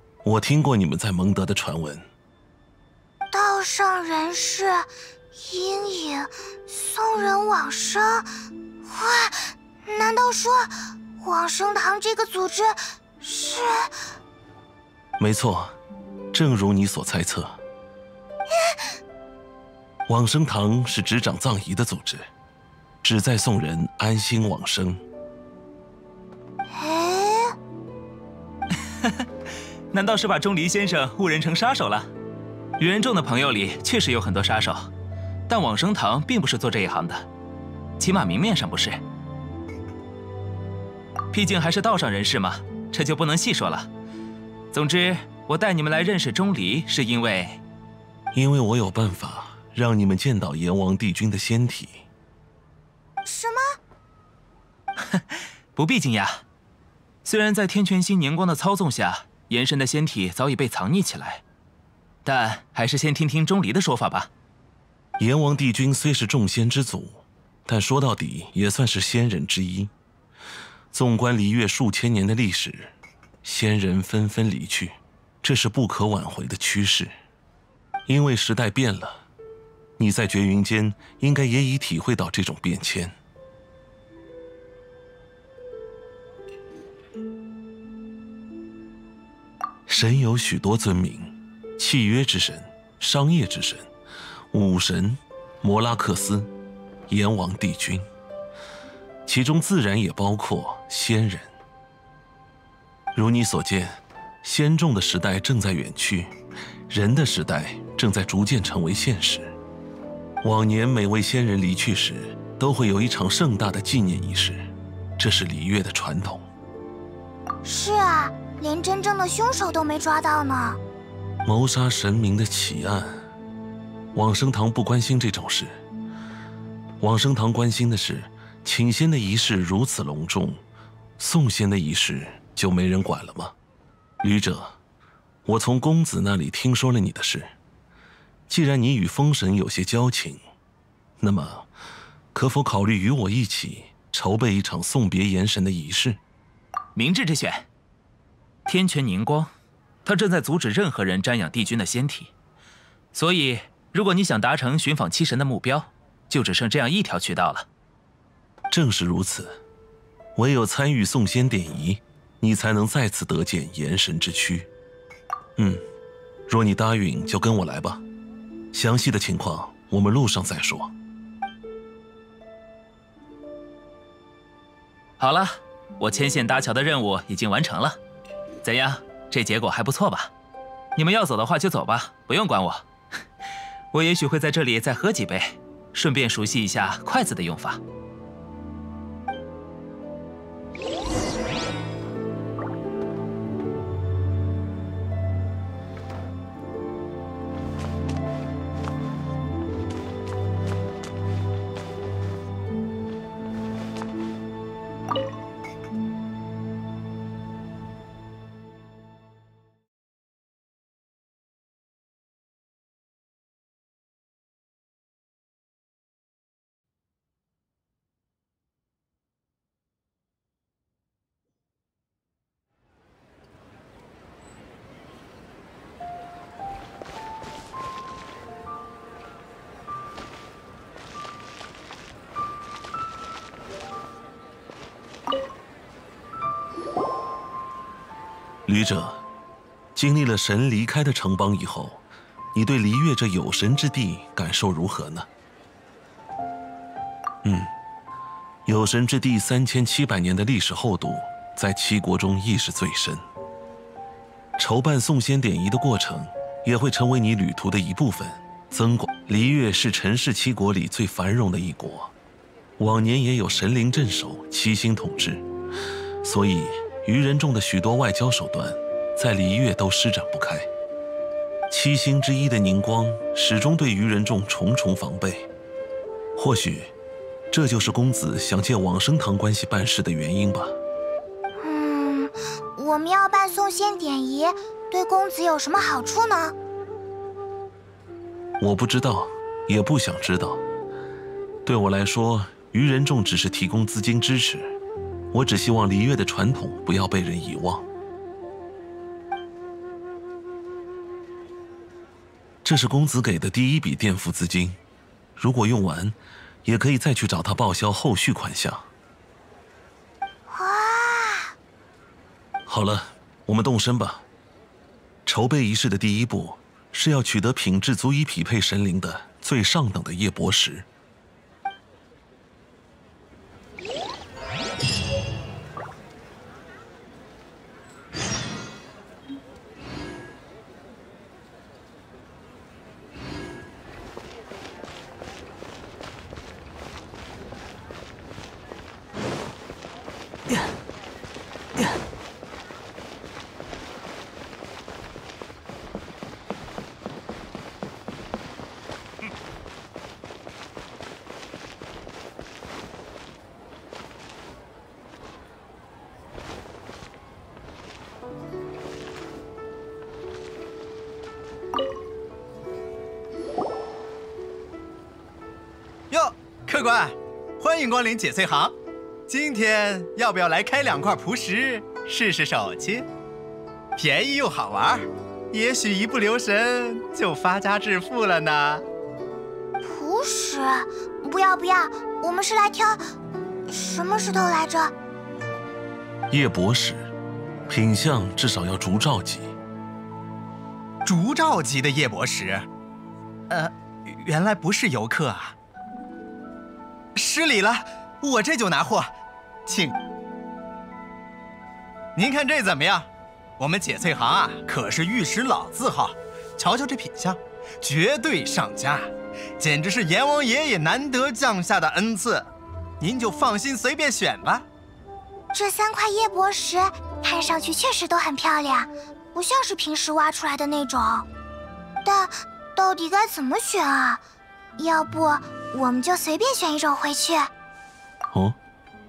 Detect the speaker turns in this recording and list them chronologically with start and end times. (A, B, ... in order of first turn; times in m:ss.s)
0:00.2-0:02.1 A
0:03.3-0:08.3 B
0:08.8-0:13.9 B
0:15.2-0:15.8 A
0:16.3-0:17.6 A
0:20.1-0:22.3 A
0:23.0-0:25.0 A
0:26.7-0:27.5 B
0:28.9-0:29.2 C
0:29.9-0:32.1 C
0:32.8-0:34.9 C
0:35.5-0:37.2 C
0:38.0-0:39.0 C
0:41.3-0:43.9 C
0:44.7-0:47.6 C
0:48.3-0:52.0 A
0:53.2-0:53.7 B
0:55.1-0:56.4 C
0:57.2-1:01.4 C
1:02.2-1:04.3 C
1:05.2-1:09.9 A
1:10.9-1:17.1 A
1:18.1-1:19.2 A
1:20.0-1:23.2 A
1:29.9-1:33.9 A
1:34.5-1:36.5 A
1:37.1-1:38.1 A
1:39.2-1:41.5 A
1:43.1-1:46.3 A
1:46.9-1:49.6 A
1:50.4-1:56.5 A
1:57.6-2:00.8 B
2:01.4-2:03.2 A
2:04.1-2:05.8 A
2:07.0-2:10.6 A
2:11.2-2:13.5 A
2:14.2-2:14.8 A
2:15.4-2:17.5 A
2:18.5-2:20.4 A
2:21.2-2:21.7 A
2:22.3-2:26.2 A
2:26.9-2:27.7 C
2:28.7-2:29.5 C
2:30.0-2:32.3 C
2:33.1-2:37.6 C
2:38.7-2:39.6 A
2:40.3-2:44.7 A
2:45.6-2:45.8 A
2:46.5-2:48.0 A
2:48.7-2:50.9 A
2:55.2-2:58.0 C
2:58.6-3:00.3 C
3:01.0-3:02.8 C
3:03.9-3:07.8 C
3:58.6-3:59.2 A
3:59.9-4:02.0 A
4:02.5-4:05.3 A
4:07.4-4:07.7 A
4:08.6-4:13.2 A
4:14.6-4:22.1 A
4:22.8-4:25.4 A
4:26.2-4:30.7 A
4:31.7-4:35.5 A
4:36.4-4:36.9 A
4:37.5-4:40.8 A
4:41.6-4:46.5 B
4:48.6-4:50.6 A
4:51.6-4:54.8 A
4:55.3-4:57.8 A
5:02.6-5:04.8 A
5:05.4-5:08.9 A
5:10.5-5:11.5 B
5:12.7-5:14.2 A
5:15.2-5:20.9 A
6:06.1-6:08.7 D
6:09.3-6:13.1 D
6:14.0-6:18.8 D
6:19.8-6:23.0 B
6:23.7-6:24.9 B
6:26.3-6:27.1 A
6:27.7-6:29.5 A
6:31.0-6:32.7 D
6:33.5-6:35.5 D
6:37.2-6:39.1 D
6:39.6-6:39.9 D
6:42.1-6:52.5 D
6:53.0-6:54.6 D
6:55.5-7:01.3 B
7:02.0-7:04.2 B
7:04.8-7:07.5 B